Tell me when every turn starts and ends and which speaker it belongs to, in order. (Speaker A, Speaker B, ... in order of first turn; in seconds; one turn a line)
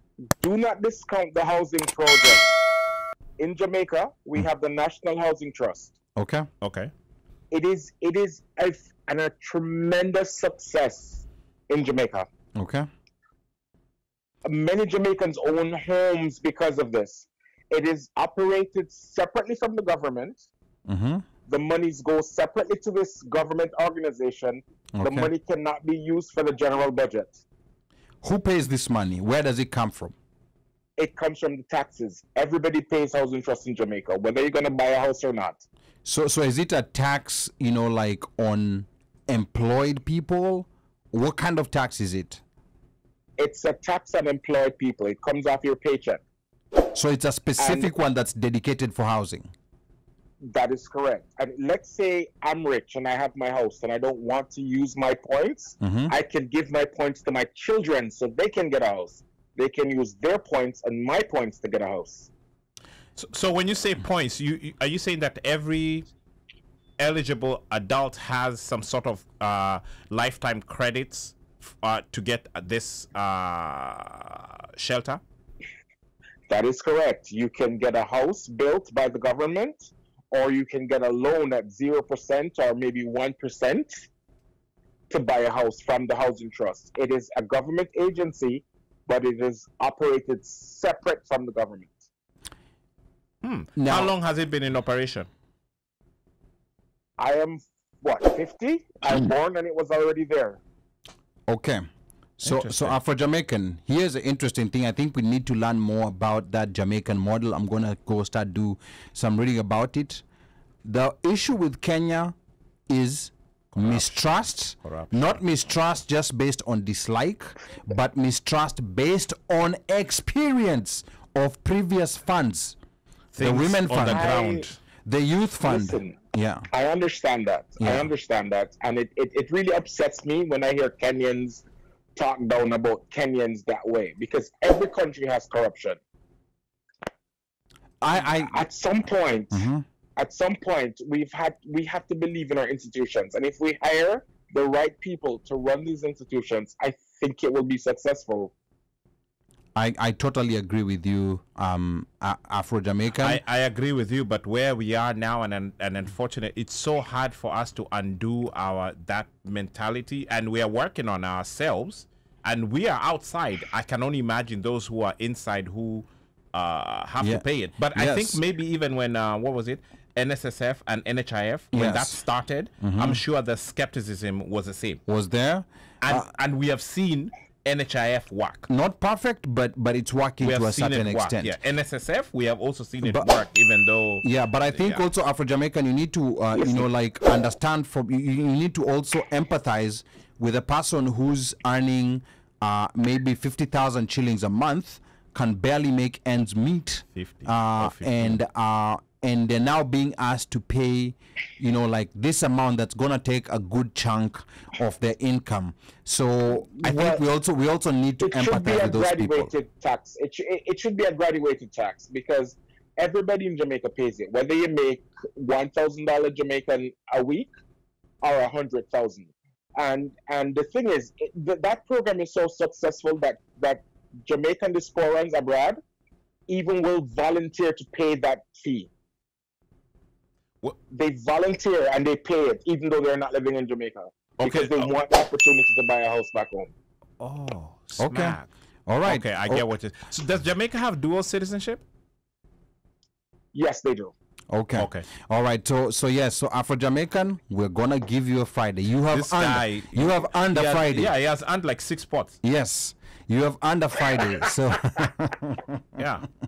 Speaker A: 0.3-2.5
Speaker A: 3.4-5.9
Speaker B: 6.2-6.5
Speaker C: 6.6-6.9
Speaker A: 7.5-12.3
Speaker B: 12.6-12.9
Speaker A: 14.4-20.5
Speaker B: 20.9-21.2
Speaker A: 21.5-27.4
Speaker B: 25.0-25.3
Speaker B: 28.2-30.1
Speaker A: 31.0-35.6
Speaker B: 36.0-42.4
Speaker A: 43.4-46.2
Speaker B: 46.9-49.5
Speaker A: 47.6-47.9
Speaker A: 50.4-62.3
Speaker B: 55.8-56.1
Speaker C: 63.2-66.1
Speaker C: 67.0-75.2
Speaker A: 76.5-84.1
Speaker A: 85.1-92.1
Speaker C: 93.4-95.3
Speaker B: 93.8-94.1
Speaker A: 97.2-100.6
Speaker B: 101.5-101.8
Speaker B: 102.4-110.2
Speaker C: 102.4-103.0
Speaker B: 110.8-112.3
Speaker B: 112.9-122.8
Speaker C: 113.7-115.4
Speaker C: 123.3-124.8
Speaker B: 123.4-124.3
Speaker A: 124.1-124.7
Speaker B: 125.0-126.7
Speaker A: 125.6-126.2
Speaker A: 126.7-136.0
Speaker B: 127.8-128.1
Speaker B: 138.0-138.7
Speaker A: 138.2-148.5
Speaker B: 139.5-139.8
Speaker B: 149.8-153.4
Speaker C: 153.1-175.0
Speaker B: 167.2-168.4
Speaker B: 171.7-172.2
Speaker B: 172.8-173.2
Speaker B: 175.1-176.3
Speaker C: 176.0-178.7
Speaker B: 178.7-181.6
Speaker C: 180.4-185.0
Speaker B: 183.0-183.3
Speaker B: 184.2-209.5
Speaker A: 186.6-186.9
Speaker C: 197.2-198.4
Speaker A: 206.7-207.2
Speaker A: 208.2-217.5
Speaker A: 218.2-225.8
Speaker A: 226.5-228.9
Speaker A: 230.9-236.7
Speaker C: 234.4-234.9
Speaker C: 237.2-238.5
Speaker B: 238.0-239.6
Speaker C: 239.0-241.8
Speaker A: 243.5-244.1
Speaker B: 244.5-251.1
Speaker C: 244.8-245.1
Speaker C: 249.1-252.4
Speaker B: 252.4-256.0
Speaker C: 256.0-256.3